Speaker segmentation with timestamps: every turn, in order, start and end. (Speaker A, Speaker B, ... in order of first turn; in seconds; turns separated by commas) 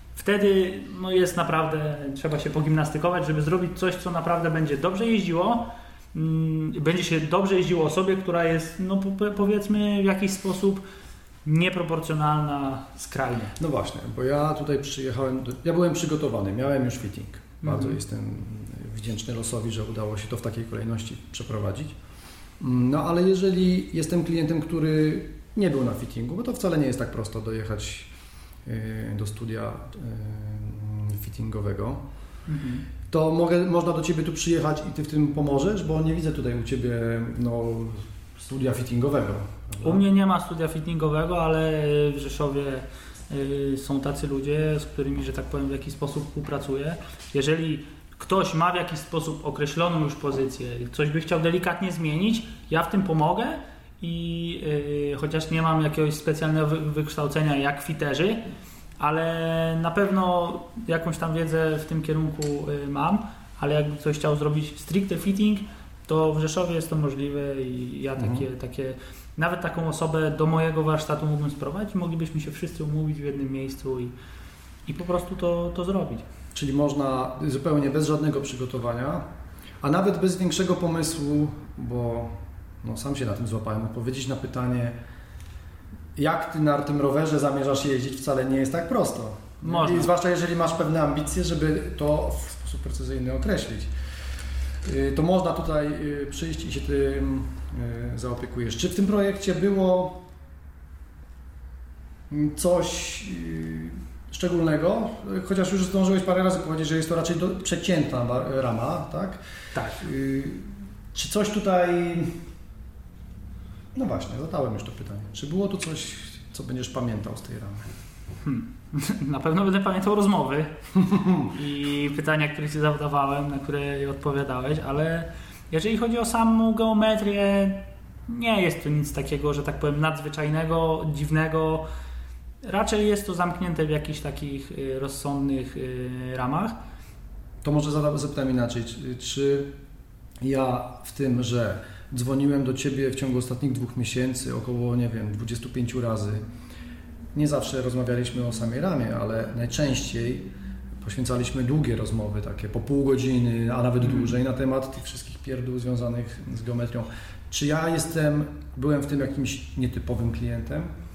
Speaker A: 0.1-10.8, Speaker A: 11.4-13.5, Speaker B: 13.6-21.9, Speaker A: 17.6-18.0, Speaker B: 22.6-28.1, Speaker B: 28.6-32.0, Speaker A: 32.5-32.9, Speaker B: 33.1-40.0, Speaker A: 39.8-58.4, Speaker A: 59.0-74.1, Speaker B: 68.2-68.4, Speaker A: 74.9-76.2, Speaker B: 76.5-79.2, Speaker B: 79.8-85.0, Speaker B: 86.2-93.9, Speaker A: 89.6-90.1, Speaker B: 94.8-100.2, Speaker B: 102.3-109.4, Speaker A: 109.7-110.0, Speaker B: 109.9-112.4, Speaker B: 113.9-117.9, Speaker A: 118.4-120.7, Speaker B: 121.0-121.5, Speaker A: 121.4-131.8, Speaker A: 132.6-136.7, Speaker B: 137.6-139.7, Speaker B: 140.4-146.4, Speaker B: 147.3-150.5, Speaker B: 151.0-160.9, Speaker A: 154.0-154.3